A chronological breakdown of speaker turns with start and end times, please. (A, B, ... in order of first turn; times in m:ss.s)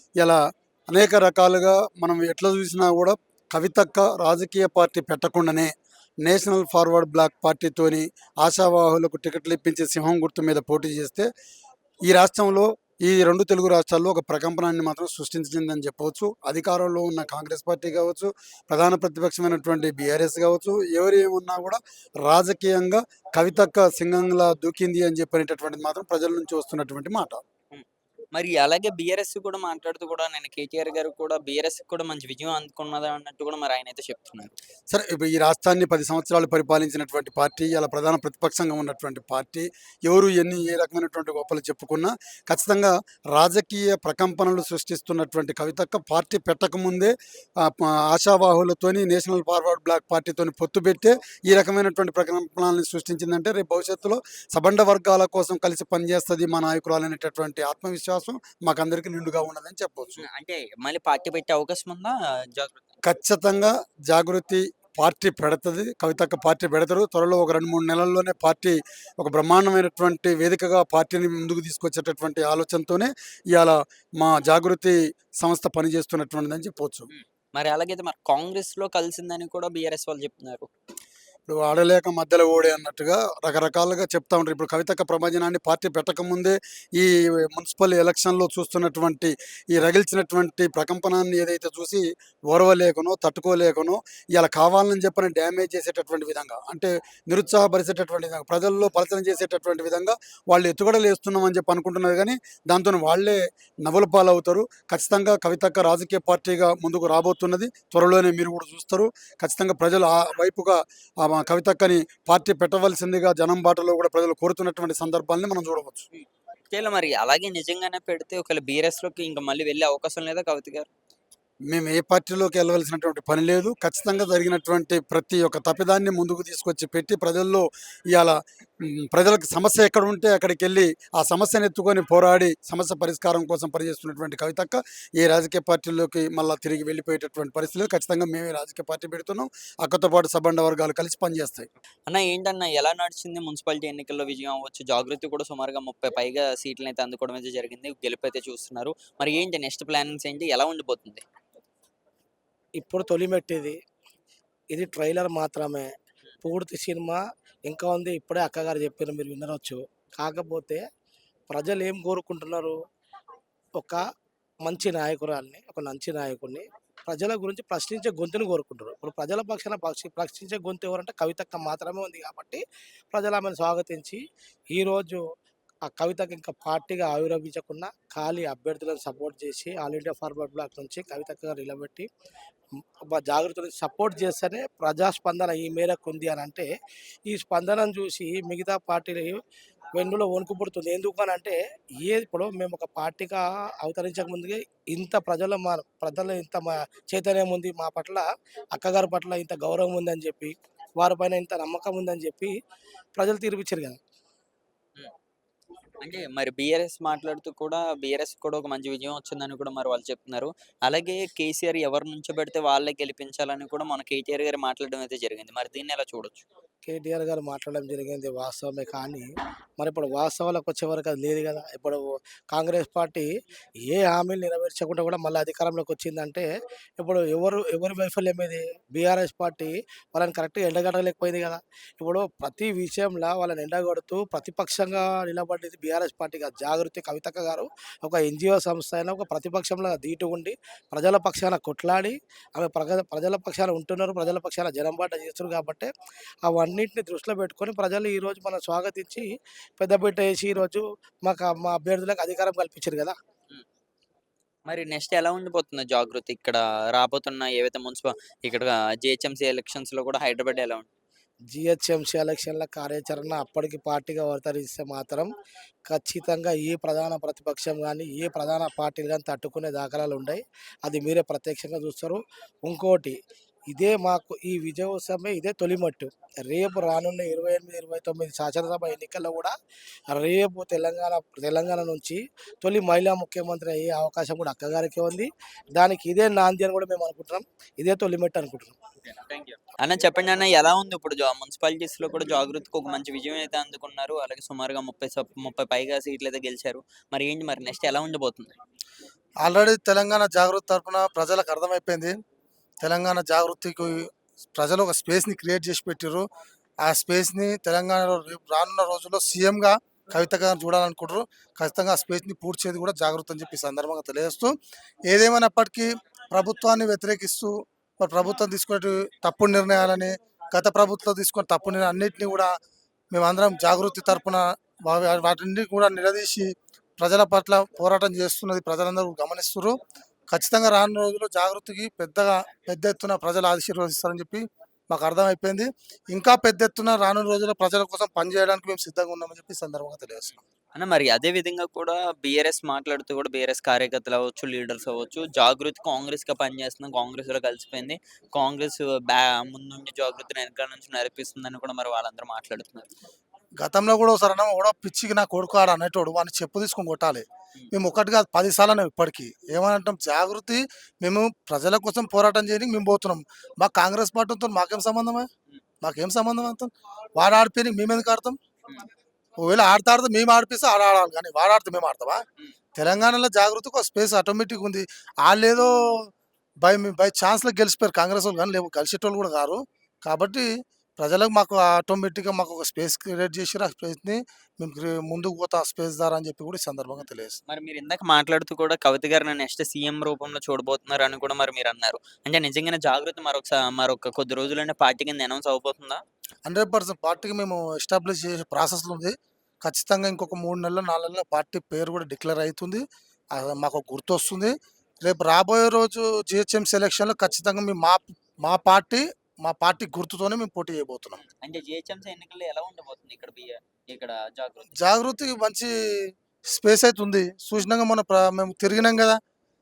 0:00.2-0:05.7 A
0:06.2-0:11.3 A
0:12.1-0:27.4 A
0:27.7-0:34.6 B
0:34.9-1:00.2 A
1:00.2-1:02.9 B
1:03.0-1:17.1 A
1:17.1-1:20.7 B
1:21.5-1:56.1 A
1:56.7-2:00.9 B
2:01.7-2:21.7 A
2:22.1-2:31.2 B
2:32.8-2:33.8 C
2:34.7-2:35.9 C
2:36.4-2:40.8 C
2:41.5-2:42.8 C
2:44.6-2:52.6 C
2:53.1-2:54.2 C
2:54.7-2:55.2 C
2:55.9-3:02.1 C
3:03.1-3:06.7 C
3:07.3-3:09.4 C
3:09.9-3:22.6 C
3:23.2-3:24.0 C
3:26.0-3:36.4 B
3:36.9-3:39.3 C
3:39.8-3:43.3 C
3:43.8-4:05.9 C
4:06.4-4:13.2 C
4:14.7-4:20.9 B
4:21.5-4:25.3 C
4:25.9-4:33.2 C
4:33.7-4:39.6 C
4:40.1-4:48.8 C
4:49.0-4:58.6 B
4:59.4-5:02.2 D
5:02.8-5:06.3 D
5:06.8-5:14.6 D
5:15.1-5:22.5 D
5:23.1-5:29.8 D
5:30.3-5:40.4 D
5:40.7-5:52.9 B
5:53.6-6:05.3 D
6:05.8-6:08.4 D
6:09.4-6:12.2 D
6:12.8-6:16.1 D
6:16.6-6:27.4 D
6:27.5-6:36.0 B
6:36.5-6:51.2 D
6:51.2-6:54.7 B
6:54.7-6:59.2 D